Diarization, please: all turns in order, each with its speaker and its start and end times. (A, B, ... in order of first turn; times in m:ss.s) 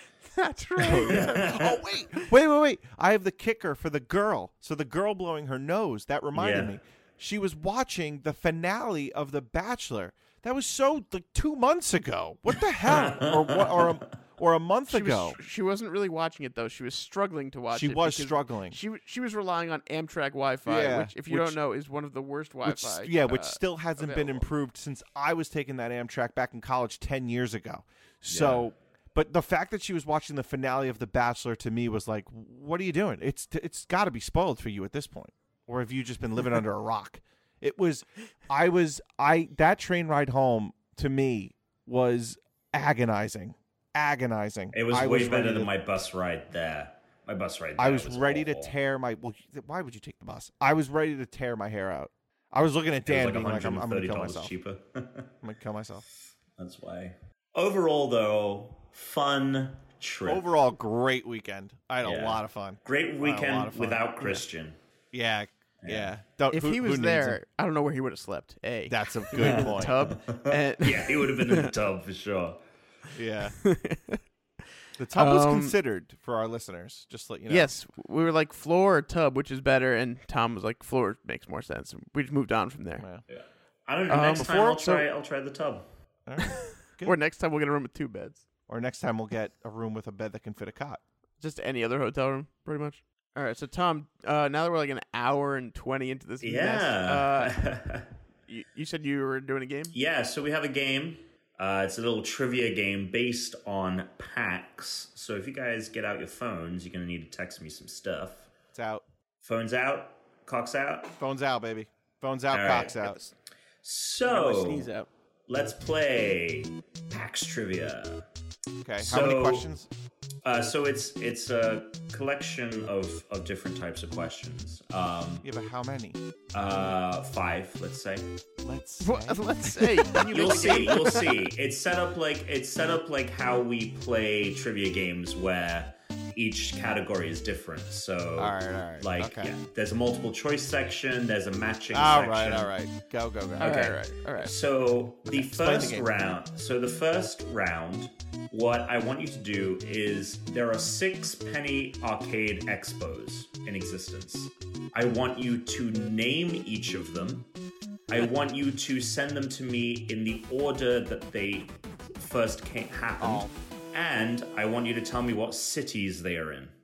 0:00.2-0:02.2 A
0:00.8-0:15.4 B
0:01.0-0:01.8 C
0:06.3-0:06.7 C
0:12.8-0:14.0 C
0:14.9-0:24.5 A
0:17.7-0:18.8 B
0:20.6-0:21.6 B
0:22.6-0:45.7 B
0:28.3-0:28.6 C
0:44.7-0:48.7 C
0:47.8-0:54.5 B
0:53.1-0:55.3 C
0:55.4-0:56.0 B
0:56.6-1:00.4 C
1:00.2-1:04.4 B
1:02.0-1:04.8 C
1:05.1-1:07.4 B
1:05.8-1:06.1 C
1:06.5-1:11.7 A
1:08.9-1:09.9 B
1:09.4-1:12.6 C
1:13.1-1:13.6 B
1:13.6-1:14.2 A
1:15.0-1:17.7 B
1:15.2-1:15.8 A
1:17.5-1:23.0 A
1:23.3-1:25.9 C
1:24.1-1:25.0 A
1:26.2-1:27.1 B
1:26.4-1:28.4 A
1:28.7-1:31.0 B
1:31.4-1:37.6 A
1:36.4-1:38.1 C
1:38.5-1:39.9 A
1:39.9-1:48.5 C
1:48.7-1:49.0 B
1:49.4-1:51.2 C
1:51.2-1:53.2 B
1:52.5-1:53.2 C
1:52.8-1:53.3 A
1:53.8-1:54.9 C
1:54.3-1:55.1 A
1:55.5-1:58.2 C
1:58.8-1:59.9 B
1:59.0-1:59.7 C
2:00.4-2:05.4 C
2:05.4-2:06.2 B
2:06.5-2:08.3 C
2:08.6-2:10.6 B
2:09.0-2:11.2 A
2:10.3-2:22.7 C
2:18.4-2:19.5 B
2:21.9-2:24.0 B
2:23.6-2:24.5 A
2:24.4-2:37.5 C
2:25.3-2:26.1 B
2:38.1-2:46.8 C
2:43.2-2:43.6 B